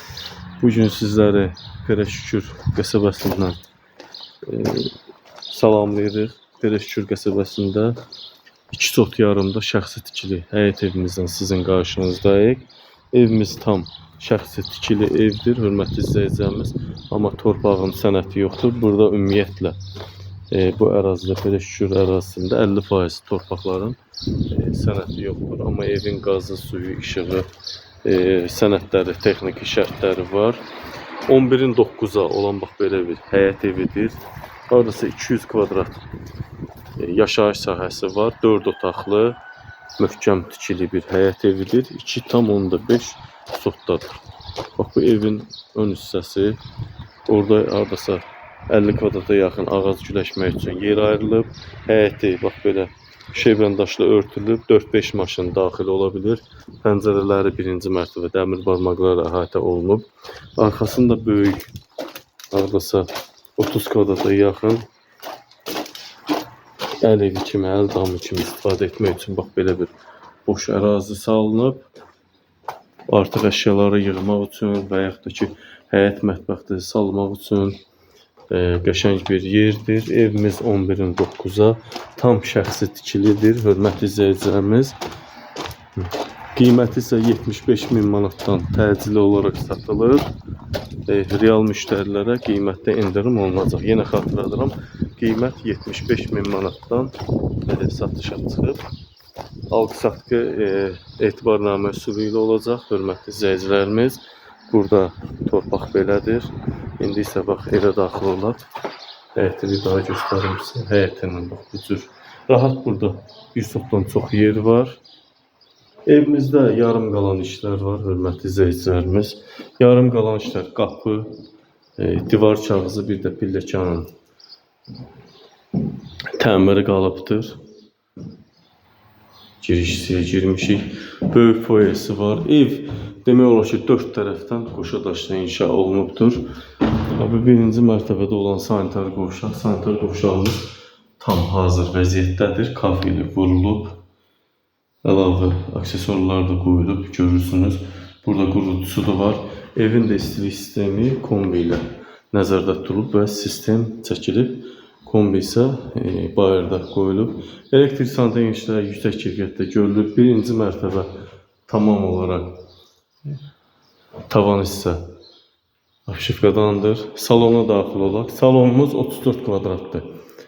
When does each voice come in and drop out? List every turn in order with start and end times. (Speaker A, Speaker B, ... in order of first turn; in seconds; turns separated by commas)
Speaker A: 0.6-3.6, Speaker A: 4.4-4.9, Speaker A: 5.5-8.0, Speaker A: 8.7-19.8, Speaker A: 20.5-27.5, Speaker A: 28.0-30.6, Speaker A: 31.3-34.2, Speaker A: 34.7-36.0, Speaker A: 37.0-39.4, Speaker A: 40.0-44.2, Speaker A: 44.7-46.6, Speaker A: 47.3-61.7, Speaker A: 62.5-64.8, Speaker A: 67.0-69.9, Speaker A: 70.4-71.8, Speaker A: 73.1-77.8, Speaker A: 78.5-85.0, Speaker A: 86.0-90.3, Speaker A: 91.0-98.8, Speaker A: 99.7-108.7, Speaker A: 109.3-115.0, Speaker A: 116.0-121.3, Speaker A: 122.0-124.1, Speaker A: 126.3-127.6, Speaker A: 129.6-136.4, Speaker A: 137.1-140.7, Speaker A: 141.2-144.0, Speaker A: 145.0-161.1, Speaker A: 161.7-162.6, Speaker A: 164.3-165.1, Speaker A: 166.1-170.0